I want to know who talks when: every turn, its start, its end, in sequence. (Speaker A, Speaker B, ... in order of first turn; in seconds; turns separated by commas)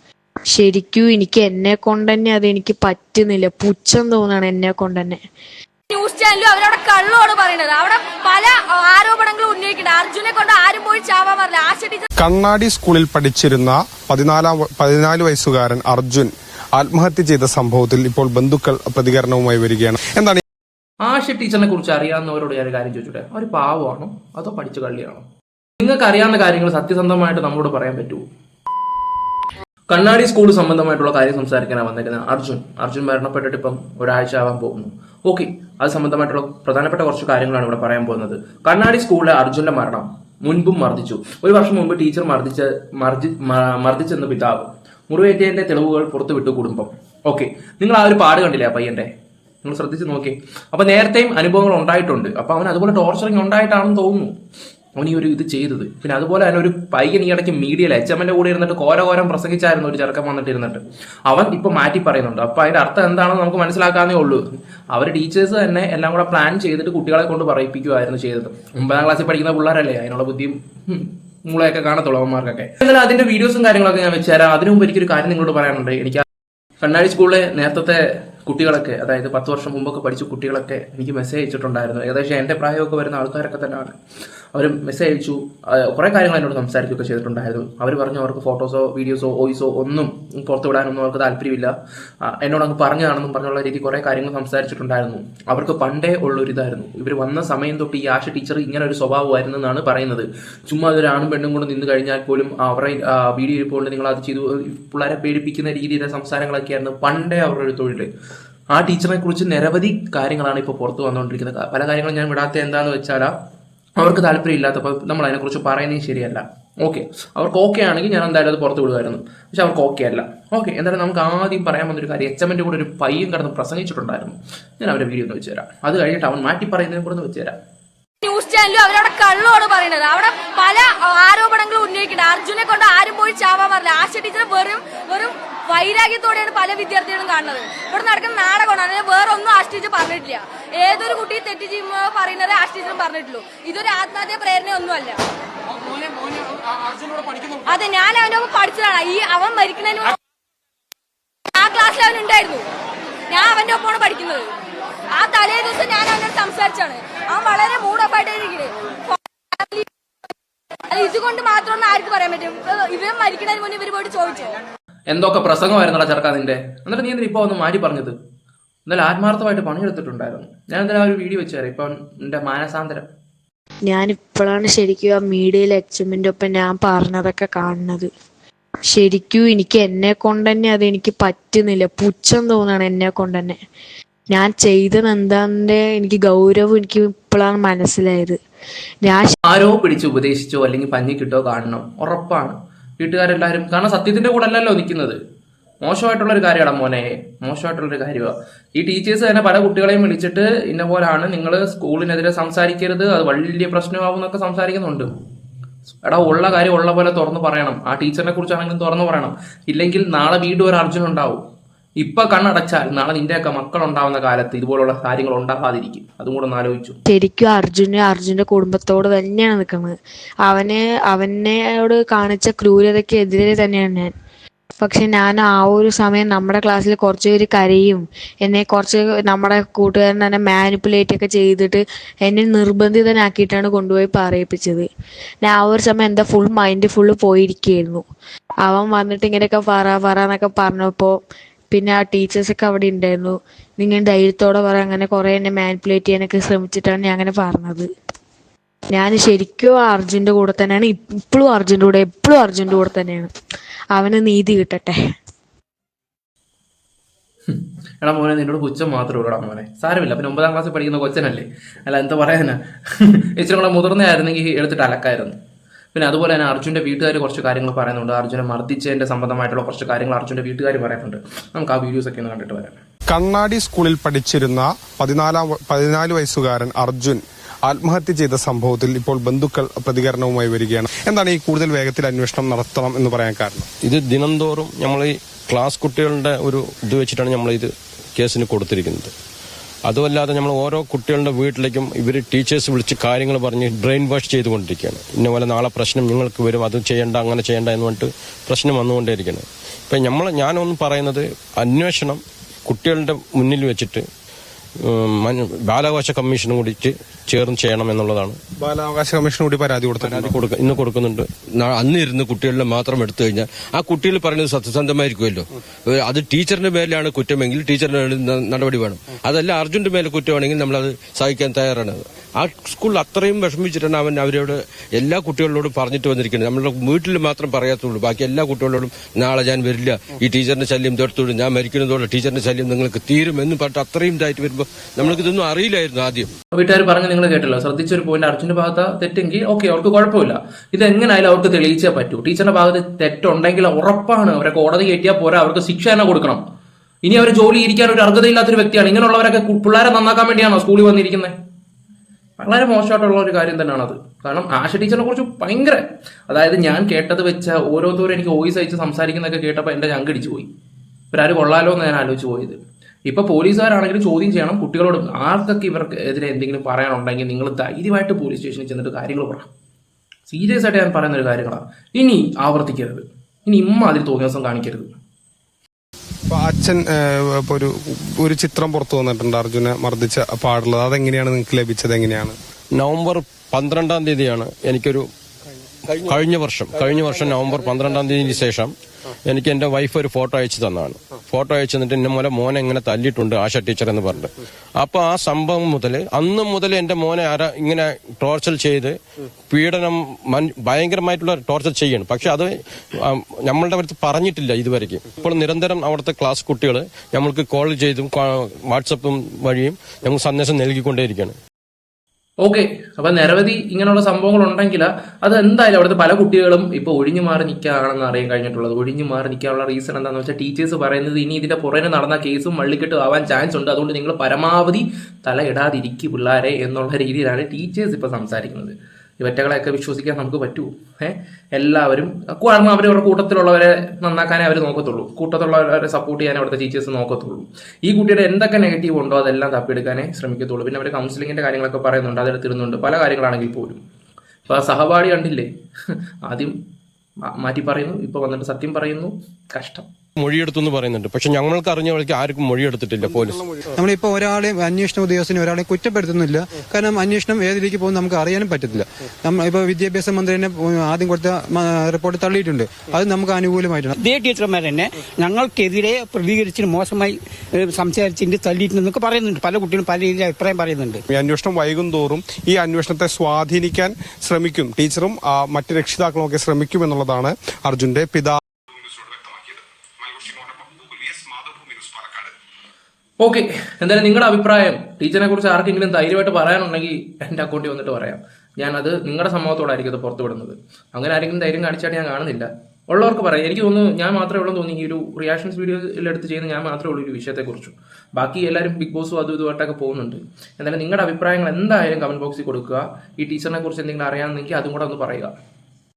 Speaker A: 0.5-5.2, Speaker B: 5.9-12.1, Speaker C: 12.2-20.4, Speaker D: 21.0-25.2, Speaker D: 25.8-28.2, Speaker D: 29.9-49.1, Speaker D: 49.6-54.3, Speaker D: 55.0-76.2, Speaker D: 76.8-84.0, Speaker D: 84.5-91.7, Speaker D: 92.3-108.1, Speaker D: 108.7-113.3, Speaker D: 114.0-127.6, Speaker B: 128.2-145.2, Speaker B: 147.7-150.2, Speaker B: 151.5-152.7, Speaker B: 153.3-154.5, Speaker B: 155.1-159.9, Speaker B: 160.9-164.6, Speaker D: 165.1-168.2, Speaker D: 168.9-173.1, Speaker A: 173.9-178.1, Speaker A: 178.9-183.6, Speaker A: 184.3-188.4, Speaker A: 189.0-189.3, Speaker D: 189.5-195.2, Speaker D: 195.8-205.1, Speaker D: 206.1-211.4, Speaker D: 212.0-217.0, Speaker A: 217.1-224.1, Speaker A: 224.8-234.9, Speaker A: 235.4-238.0, Speaker A: 238.6-241.2, Speaker A: 241.7-247.9, Speaker A: 248.9-253.3, Speaker A: 253.9-255.0, Speaker D: 257.5-265.4, Speaker D: 265.9-272.8, Speaker C: 273.1-283.6, Speaker E: 283.8-289.1, Speaker E: 289.9-304.1, Speaker E: 304.8-308.4, Speaker C: 308.6-310.4, Speaker E: 310.1-311.2, Speaker F: 311.6-315.4, Speaker F: 316.1-322.8, Speaker F: 323.3-324.4, Speaker F: 325.0-336.3, Speaker D: 336.5-346.4, Speaker D: 347.0-351.3, Speaker D: 352.4-360.5, Speaker D: 361.1-369.5, Speaker D: 370.3-374.9, Speaker C: 376.3-382.3, Speaker E: 382.8-385.1, Speaker E: 386.0-388.7, Speaker E: 389.3-399.0, Speaker E: 399.5-402.5, Speaker E: 403.0-411.4, Speaker D: 412.4-443.8, Speaker D: 444.5-446.5, Speaker D: 447.3-449.9, Speaker E: 450.2-453.4, Speaker G: 453.8-464.0, Speaker H: 464.0-471.0, Speaker C: 471.1-482.3, Speaker D: 483.2-505.3